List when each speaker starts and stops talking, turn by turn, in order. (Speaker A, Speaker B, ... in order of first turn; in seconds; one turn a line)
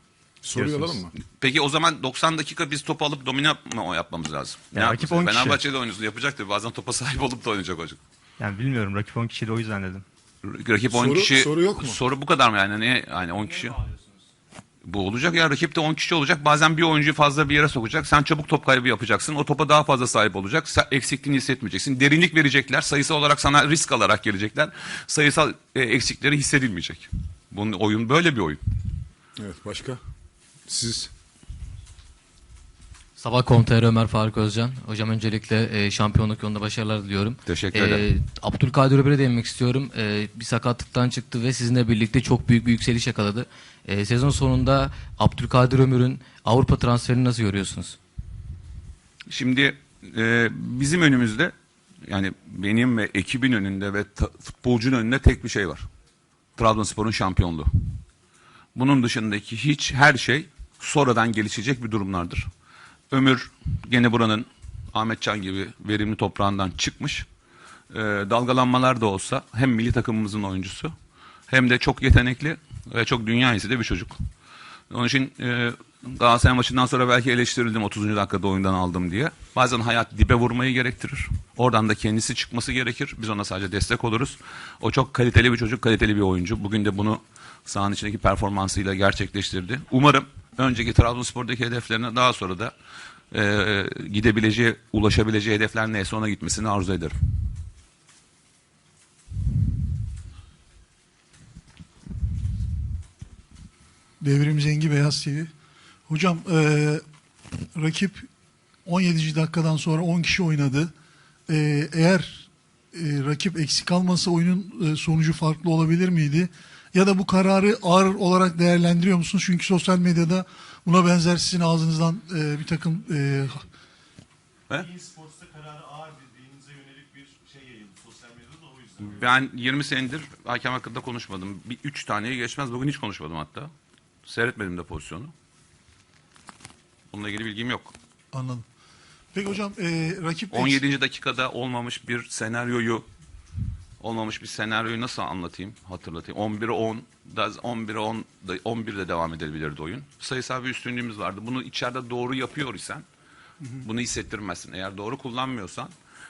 Speaker A: 0.5-1.1
Speaker B: 0.6-1.0
Speaker C: 1.2-8.0
Speaker B: 4.7-5.6
Speaker B: 8.4-10.1
Speaker C: 10.4-13.8
Speaker A: 10.9-11.9
Speaker C: 14.9-28.6
Speaker A: 29.4-30.0
Speaker A: 30.7-31.1
Speaker D: 33.2-48.0
Speaker C: 37.5-38.0
Speaker C: 49.3-51.5
Speaker C: 52.1-55.9
Speaker C: 56.6-57.7
Speaker C: 58.8-62.5
Speaker C: 63.1-67.3
Speaker C: 67.9-70.9
Speaker C: 71.5-74.2
Speaker C: 74.9-92.7
Speaker C: 93.3-97.1
Speaker E: 104.2-105.5
Speaker E: 106.1-107.0
Speaker E: 107.7-108.3
Speaker E: 108.9-110.9
Speaker E: 111.5-123.7
Speaker F: 124.8-129.2
Speaker C: 129.1-133.7
Speaker C: 134.3-135.3
Speaker C: 137.1-137.9
Speaker E: 138.3-138.7
Speaker E: 139.3-140.8
Speaker C: 140.5-143.1
Speaker C: 144.0-153.1
Speaker C: 153.8-155.9